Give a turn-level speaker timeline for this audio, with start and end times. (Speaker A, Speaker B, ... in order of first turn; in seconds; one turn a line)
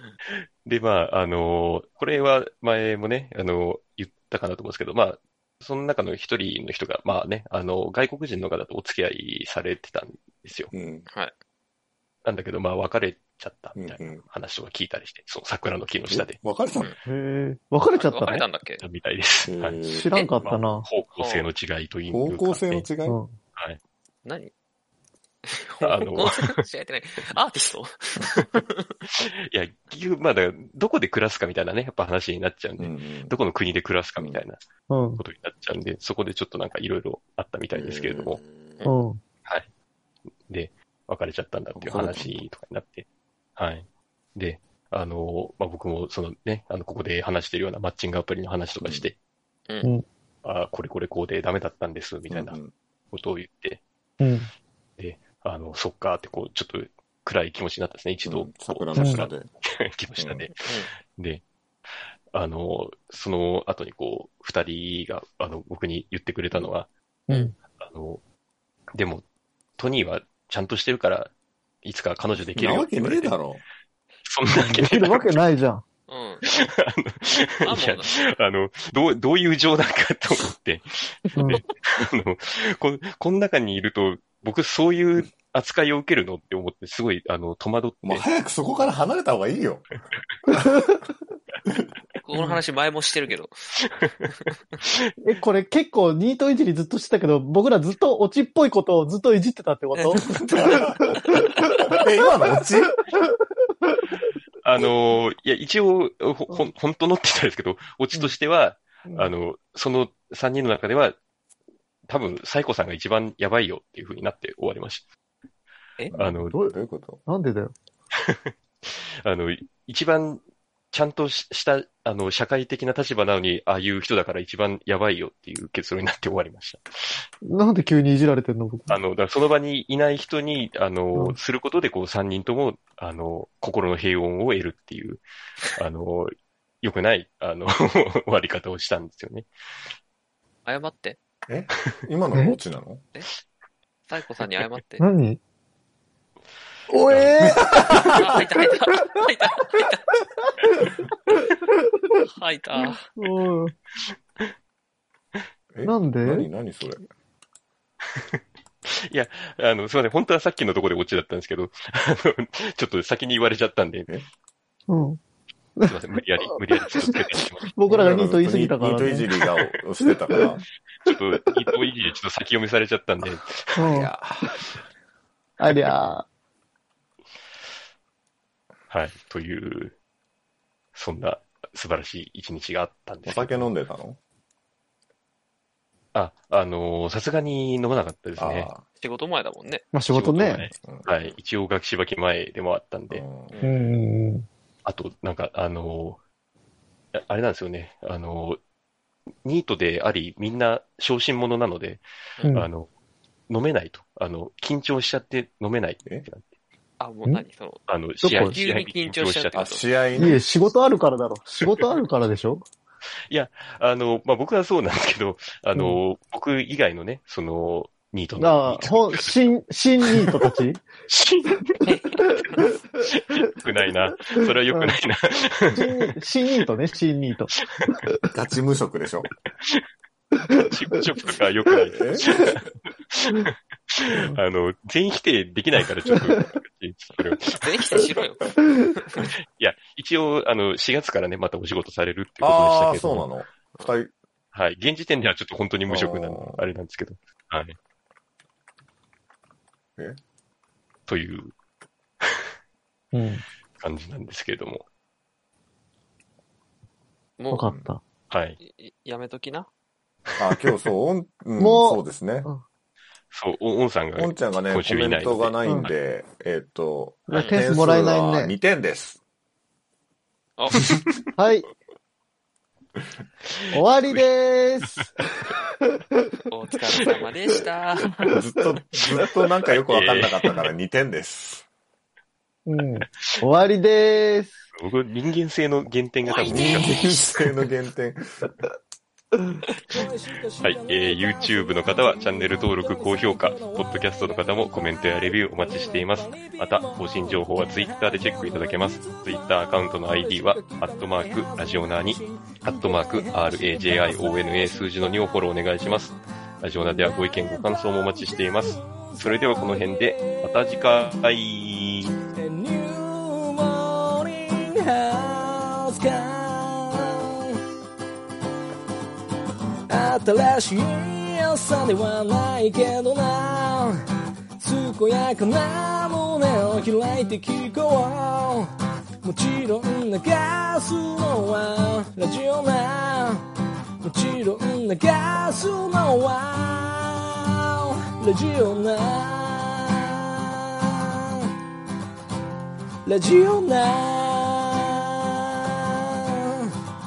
Speaker A: 0.3-10.7
Speaker B: 10.7-11.1
Speaker A: 12.2-16.4
Speaker B: 13.8-14.2
Speaker B: 16.1-16.9
Speaker C: 17.1-18.4
Speaker D: 17.9-18.8
Speaker A: 18.2-19.8
Speaker B: 19.4-20.1
Speaker C: 19.8-20.9
Speaker A: 20.4-22.9
Speaker D: 21.2-21.5
Speaker B: 22.1-23.2
Speaker C: 23.1-23.4
Speaker D: 24.2-24.5
Speaker D: 25.5-28.9
Speaker A: 25.8-26.5
Speaker A: 29.5-34.6
Speaker B: 32.8-33.4
Speaker B: 34.2-34.4
Speaker C: 34.9-35.2
Speaker A: 35.2-38.4
Speaker B: 37.7-38.4
Speaker D: 38.3-38.9
Speaker C: 38.8-39.2
Speaker A: 40.5-49.2
Speaker B: 41.8-42.4
Speaker B: 48.8-49.1
Speaker A: 50.4-52.6
Speaker B: 52.3-52.7
Speaker A: 53.1-53.8
Speaker C: 54.2-54.5
Speaker A: 55.0-61.4
Speaker B: 58.2-59.5
Speaker C: 59.0-59.2
Speaker B: 60.2-60.5
Speaker D: 60.6-60.9
Speaker A: 62.3-66.9
Speaker C: 67.3-67.5
Speaker A: 67.8-68.2
Speaker A: 68.9-69.2
Speaker A: 69.8-73.4
Speaker B: 72.5-73.6
Speaker A: 74.2-75.4
Speaker C: 74.5-75.8
Speaker D: 76.1-76.4
Speaker A: 76.5-88.3
Speaker D: 77.6-78.1
Speaker C: 81.4-81.6
Speaker B: 88.0-89.9
Speaker C: 90.5-90.9
Speaker D: 92.2-93.5
Speaker C: 95.2-101.3
Speaker D: 100.0-100.2
Speaker B: 100.3-101.1
Speaker B: 101.9-102.9
Speaker A: 104.6-111.2
Speaker A: 112.1-115.0
Speaker B: 116.1-117.2
Speaker A: 116.1-116.6
Speaker C: 117.3-117.7
Speaker A: 118.2-127.2
Speaker C: 127.4-129.0
Speaker A: 128.9-136.3
Speaker A: 136.8-139.5
Speaker D: 140.6-141.2
Speaker B: 141.5-143.0
Speaker D: 144.1-145.1
Speaker C: 145.0-145.4
Speaker C: 146.9-148.0
Speaker A: 147.1-147.4
Speaker B: 147.6-148.1
Speaker D: 148.1-150.1
Speaker D: 152.4-153.1
Speaker C: 152.8-153.7
Speaker A: 154.1-154.5
Speaker B: 155.7-157.0
Speaker C: 155.8-156.5
Speaker A: 158.1-158.4
Speaker A: 159.1-164.2
Speaker C: 164.9-165.2
Speaker C: 165.8-167.2
Speaker A: 165.9-167.8
Speaker C: 167.7-169.4
Speaker B: 167.9-170.6
Speaker A: 171.0-173.9
Speaker C: 173.7-174.6
Speaker B: 173.9-174.5
Speaker C: 175.6-176.2
Speaker A: 178.9-180.0
Speaker A: 180.9-183.7
Speaker B: 183.2-184.2
Speaker A: 186.1-188.7
Speaker B: 188.4-188.8
Speaker D: 189.0-189.8
Speaker C: 189.9-190.7
Speaker A: 190.1-193.2
Speaker B: 190.8-191.1
Speaker B: 193.1-193.6
Speaker D: 193.5-193.9
Speaker C: 193.6-194.4
Speaker A: 194.8-196.2
Speaker A: 197.1-198.6
Speaker A: 199.4-202.9
Speaker D: 202.4-202.7
Speaker C: 202.4-202.7
Speaker A: 203.5-206.5
Speaker D: 207.0-209.9
Speaker A: 207.9-209.6
Speaker C: 208.2-208.6
Speaker B: 209.5-210.4
Speaker C: 210.1-212.7
Speaker A: 213.3-219.5
Speaker C: 215.7-216.0
Speaker C: 218.4-220.8
Speaker A: 221.1-222.4
Speaker D: 221.8-222.4
Speaker A: 223.0-226.1
Speaker C: 224.7-224.9
Speaker C: 225.7-228.2
Speaker B: 228.3-229.3
Speaker A: 230.6-232.6
Speaker B: 231.9-232.5
Speaker A: 233.1-238.1
Speaker C: 234.1-234.4
Speaker D: 237.6-238.4
Speaker A: 239.5-243.3
Speaker B: 242.4-244.1
Speaker A: 244.5-247.8
Speaker B: 245.9-246.6
Speaker A: 251.1-251.5
Speaker C: 253.1-253.4
Speaker A: 253.8-254.8
Speaker C: 257.5-258.0
Speaker A: 258.3-258.6
Speaker D: 258.6-259.7
Speaker A: 260.3-260.6
Speaker B: 260.4-262.5
Speaker C: 261.6-262.6
Speaker A: 263.3-266.0
Speaker B: 264.1-269.2
Speaker C: 267.3-268.5
Speaker D: 267.3-267.6
Speaker D: 270.6-270.8
Speaker C: 271.4-271.7
Speaker C: 273.7-275.6
Speaker D: 276.5-278.1
Speaker B: 278.3-281.6
Speaker A: 279.6-280.6
Speaker C: 282.6-284.6
Speaker A: 284.7-287.2
Speaker D: 286.4-286.8
Speaker B: 286.5-288.2
Speaker E: 290.0-291.2
Speaker A: 290.6-312.1
Speaker E: 293.1-293.8
Speaker E: 296.3-296.5
Speaker E: 302.7-303.0
Speaker E: 303.5-304.3
Speaker E: 312.6-317.1
Speaker E: 319.9-323.9
Speaker E: 324.6-328.7
Speaker E: 329.2-333.4
Speaker E: 334.0-340.0
Speaker E: 343.1-345.0